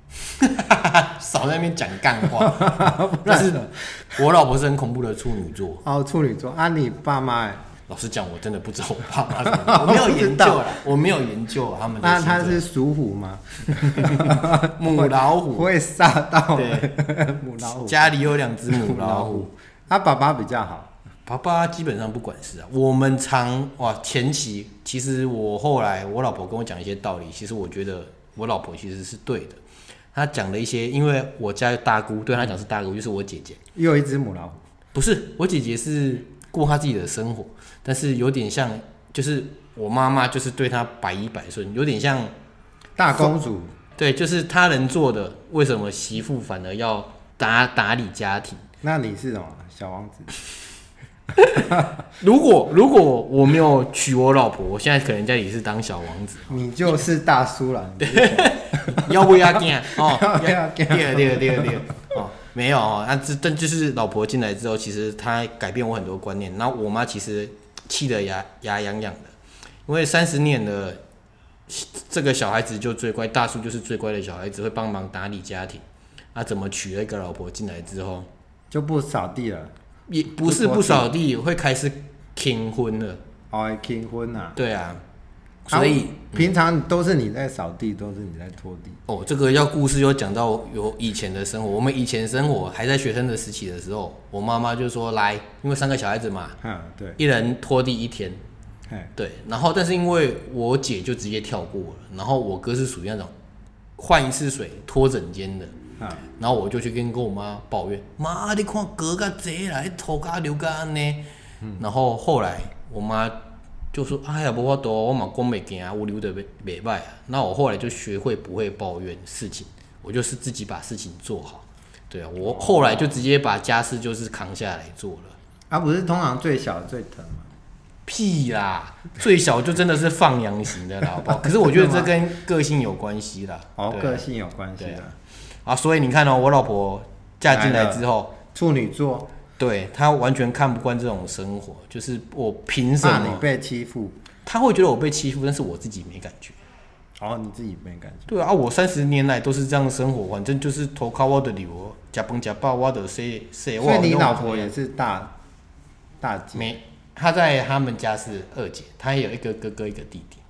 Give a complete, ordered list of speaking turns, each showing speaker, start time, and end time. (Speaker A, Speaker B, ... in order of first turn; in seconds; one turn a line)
Speaker A: 0.3-5.8
Speaker B: 2.4-3.6
Speaker B: 5.8-7.6
Speaker A: 7.9-12.6
Speaker B: 9.4-10.6
Speaker B: 12.0-20.9
Speaker A: 13.8-15.7
Speaker A: 16.5-16.9
Speaker A: 17.6-19.5
Speaker A: 21.2-29.6
Speaker A: 30.1-33.6
Speaker B: 33.7-34.6
Speaker A: 34.9-42.3
Speaker B: 43.0-43.7
Speaker A: 44.0-48.6
Speaker B: 48.8-50.3
Speaker A: 51.4-56.5
Speaker B: 56.5-61.8
Speaker A: 58.0-69.3
Speaker A: 69.8-71.0
Speaker A: 71.7-75.8
Speaker A: 76.3-78.3
Speaker B: 78.7-79.7
Speaker A: 80.1-83.2
Speaker B: 80.4-81.1
Speaker B: 83.5-84.5
Speaker A: 84.5-85.0
Speaker A: 85.7-86.5
Speaker B: 85.7-89.0
Speaker A: 89.1-96.6
Speaker B: 96.6-97.2
Speaker A: 97.2-98.4
Speaker A: 99.2-103.3
Speaker A: 104.0-105.8
Speaker A: 106.4-111.2
Speaker A: 111.8-113.3
Speaker A: 113.9-125.4
Speaker B: 122.4-123.2
Speaker B: 125.7-127.5
Speaker A: 128.1-134.2
Speaker B: 131.4-132.1
Speaker B: 133.8-135.1
Speaker A: 134.8-135.0
Speaker A: 135.6-138.4
Speaker B: 137.5-139.3
Speaker A: 139.6-143.4
Speaker B: 143.0-144.2
Speaker A: 144.4-146.6
Speaker B: 147.2-148.3
Speaker A: 148.3-154.7
Speaker B: 153.8-155.3
Speaker B: 156.2-156.8
Speaker A: 156.5-160.4